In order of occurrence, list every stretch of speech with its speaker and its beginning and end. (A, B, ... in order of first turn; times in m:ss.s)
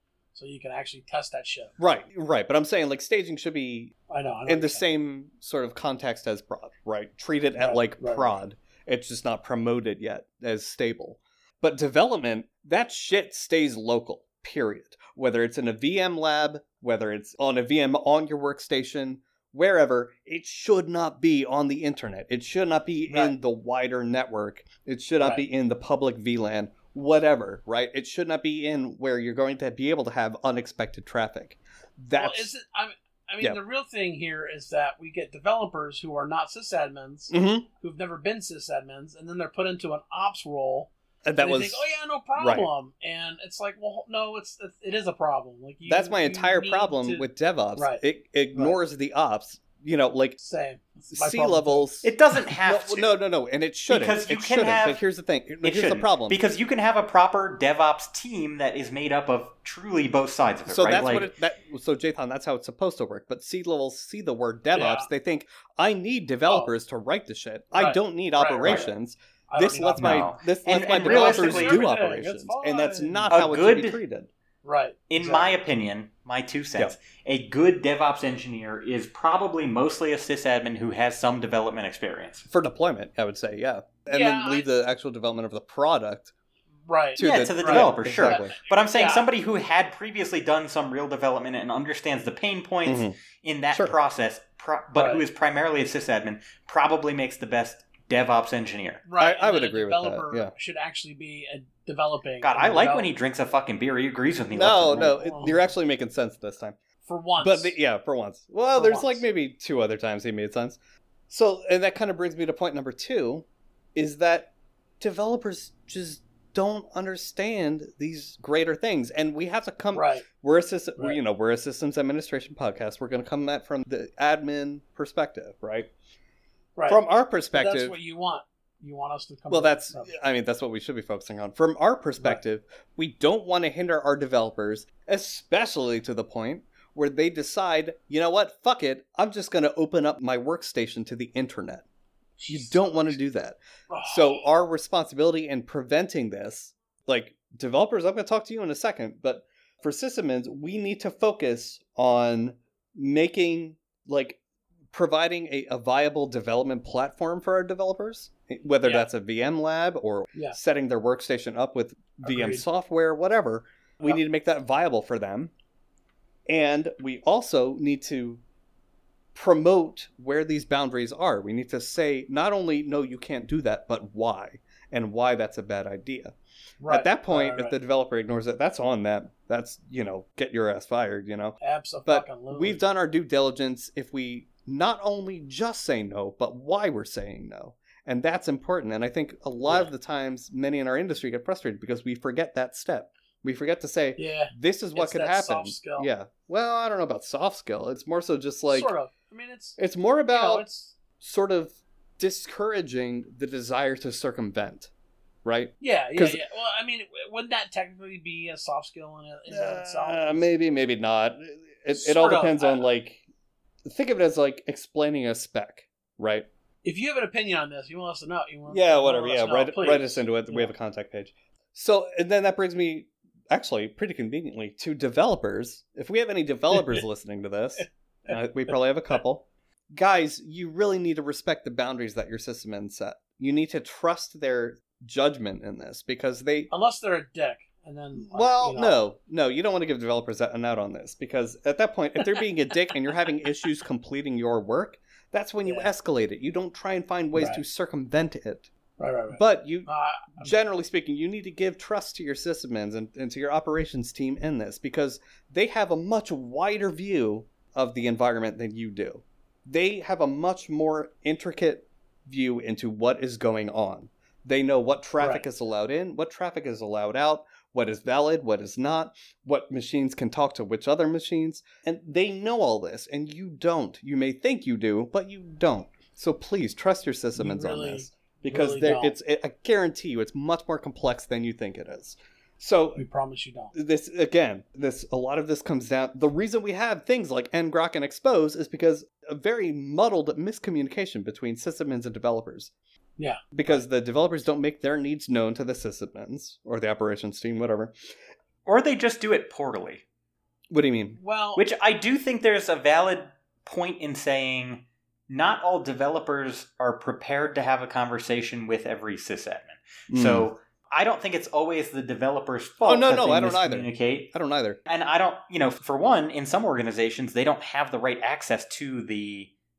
0:00.3-0:01.7 A
0:01.8-0:03.9 B
0:04.1-0:04.8 A
0:04.5-0:32.5 B
0:07.6-0:08.3 A
0:23.1-0:23.3 A
0:32.1-0:48.0 A
0:37.3-0:37.6 B
0:41.2-0:42.7 B
0:45.8-0:50.4 B
0:50.4-0:51.9 A
0:51.1-0:56.4 B
0:52.0-0:53.1 C
0:53.9-0:55.0 C
0:55.6-1:01.3 C
1:00.7-1:14.3 B
1:04.7-1:05.1 A
1:07.7-1:08.9 A
1:09.5-1:10.3 A
1:10.0-1:11.8 C
1:10.9-1:13.3 A
1:13.3-1:14.0 C
1:14.6-1:15.6 A
1:15.1-1:22.4 C
1:22.5-1:26.3 B
1:24.1-1:24.6 A
1:26.8-1:29.2 A
1:27.2-1:28.5 B
1:27.2-1:39.0 C
1:32.8-1:33.2 B
1:34.9-1:35.2 A
1:39.0-1:43.1 A
1:39.2-1:40.5 B
1:42.4-1:45.1 C
1:44.5-1:46.8 B
1:44.9-1:45.6 A
1:47.0-1:47.7 A
1:47.4-1:50.8 B
1:48.8-1:49.2 A
1:51.3-2:05.9 B
1:59.9-2:00.2 A
2:06.8-2:10.1 A
2:06.9-2:08.0 B
2:09.5-2:21.8 B
2:22.4-2:23.2 A
2:22.5-2:34.4 B
2:23.9-2:24.4 A
2:34.9-2:45.5 B
2:38.8-2:39.1 A
2:42.2-2:42.6 A
2:46.5-2:48.4 B
2:49.3-2:56.4 B
2:56.8-2:57.8 A
2:56.9-3:18.9 B
3:01.6-3:02.8 A
3:14.2-3:16.1 A
3:18.7-3:19.8 A
3:19.8-3:20.6 B
3:20.3-3:20.9 A
3:21.2-3:24.9 B
3:25.4-3:26.4 B
3:25.8-3:30.5 A
3:29.5-3:33.2 B
3:31.9-3:32.8 A
3:33.8-3:36.5 B
3:36.8-3:40.7 A
3:38.7-3:56.7 B
3:56.7-3:59.0 A
3:58.2-4:08.7 B
4:05.6-4:05.9 A
4:07.3-4:07.6 A
4:09.0-4:10.5 A
4:09.3-4:43.0 B
4:25.2-4:25.5 A
4:37.4-4:39.2 A
4:43.0-4:43.7 A
4:43.7-4:52.7 B
4:53.2-4:53.8 A
4:53.5-4:57.9 B
4:58.6-5:00.0 C
5:00.7-5:01.2 B
5:01.2-5:01.6 A
5:01.6-5:14.3 C
5:10.1-5:10.5 B
5:12.8-5:14.8 B
5:14.9-5:19.5 C